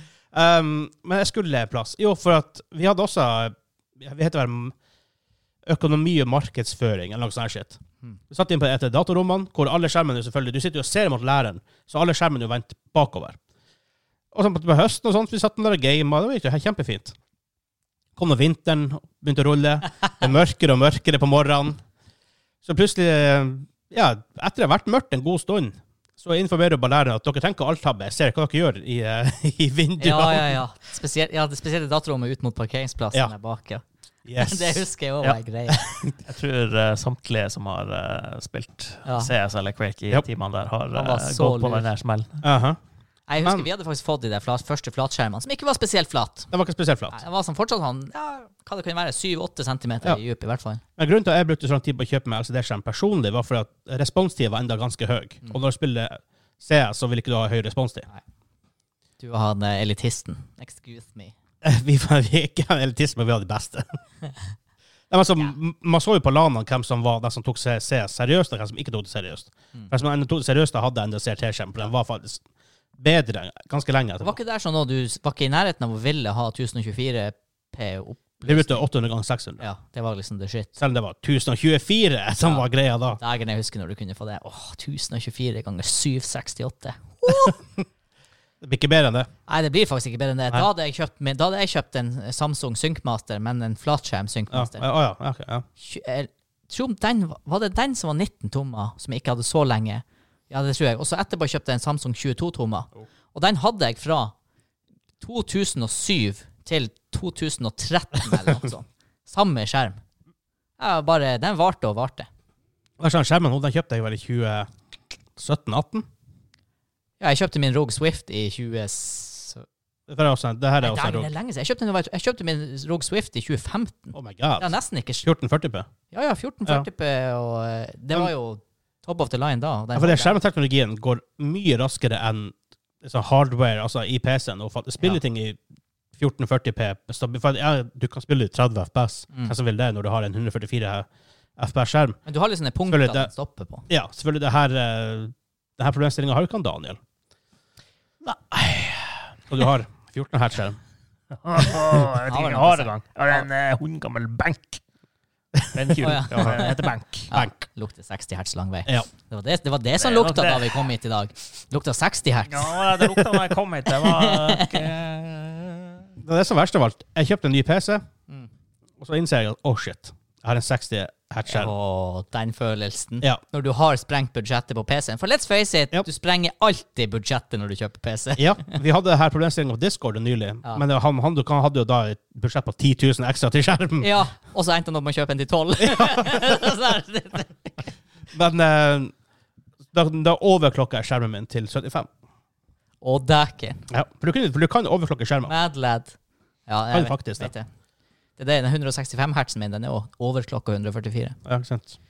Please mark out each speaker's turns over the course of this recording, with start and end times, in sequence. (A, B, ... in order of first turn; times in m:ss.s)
0:00.3-0:04.8 A
0:05.7-0:07.8 A
0:08.3-0:13.4 A
0:14.3-0:17.2 A
0:18.2-0:21.8 A
0:22.6-0:30.6 A
0:30.0-0:33.8 B
0:34.2-0:34.8 A
0:34.4-0:35.9 B
0:35.7-0:36.1 A
0:36.2-0:42.4 C
0:39.0-0:39.3 B
0:40.9-0:41.9 B
0:42.4-0:42.8 A
0:43.3-0:46.5 B
0:46.5-0:47.2 A
0:47.1-0:50.8 B
0:51.0-0:58.1 A
0:59.2-1:01.4 B
1:01.6-1:03.8 A
1:05.1-1:12.4 A
1:13.0-1:14.4 A
1:14.2-1:18.8 B
1:18.4-1:19.6 A
1:19.6-1:20.7 B
1:20.8-1:23.2 A
1:22.4-1:22.7 B
1:23.2-1:27.6 B
1:28.6-1:29.3 A
1:29.5-1:34.8 B
1:34.5-1:35.6 A
1:35.8-1:44.3 B
1:45.2-1:50.0 B
1:50.8-1:52.3 B
1:53.0-1:54.7 A
1:55.4-1:56.1 A
1:57.2-1:59.6 B
2:00.1-2:01.3 A
2:00.8-2:05.3 B
2:04.1-2:04.7 A
2:05.2-2:05.9 A
2:06.1-2:10.4 B
2:10.0-2:15.6 A
2:16.1-2:22.2 A
2:22.3-2:23.8 B
2:22.9-2:23.3 A
2:23.9-2:27.0 A
2:28.2-2:29.4 C
2:29.5-2:30.8 A
2:31.4-2:34.8 C
2:32.3-2:33.4 B
2:35.6-2:36.6 A
2:35.7-2:37.3 C
2:36.0-2:43.4 B
2:37.3-2:37.6 A
2:40.0-2:40.9 C
2:42.5-2:46.0 C
2:43.9-2:44.9 B
2:46.2-2:48.0 A
2:49.0-2:51.7 A
2:51.5-2:58.8 B
2:58.4-3:04.1 A
3:04.0-3:07.9 B
3:05.8-3:06.5 A
3:08.3-3:09.1 A
3:09.9-3:12.1 A
3:13.0-3:13.8 B
3:13.9-3:15.5 A
3:15.5-3:16.2 B
3:16.7-3:17.7 B
3:16.9-3:17.5 A
3:18.4-3:21.4 B
3:21.4-3:22.0 A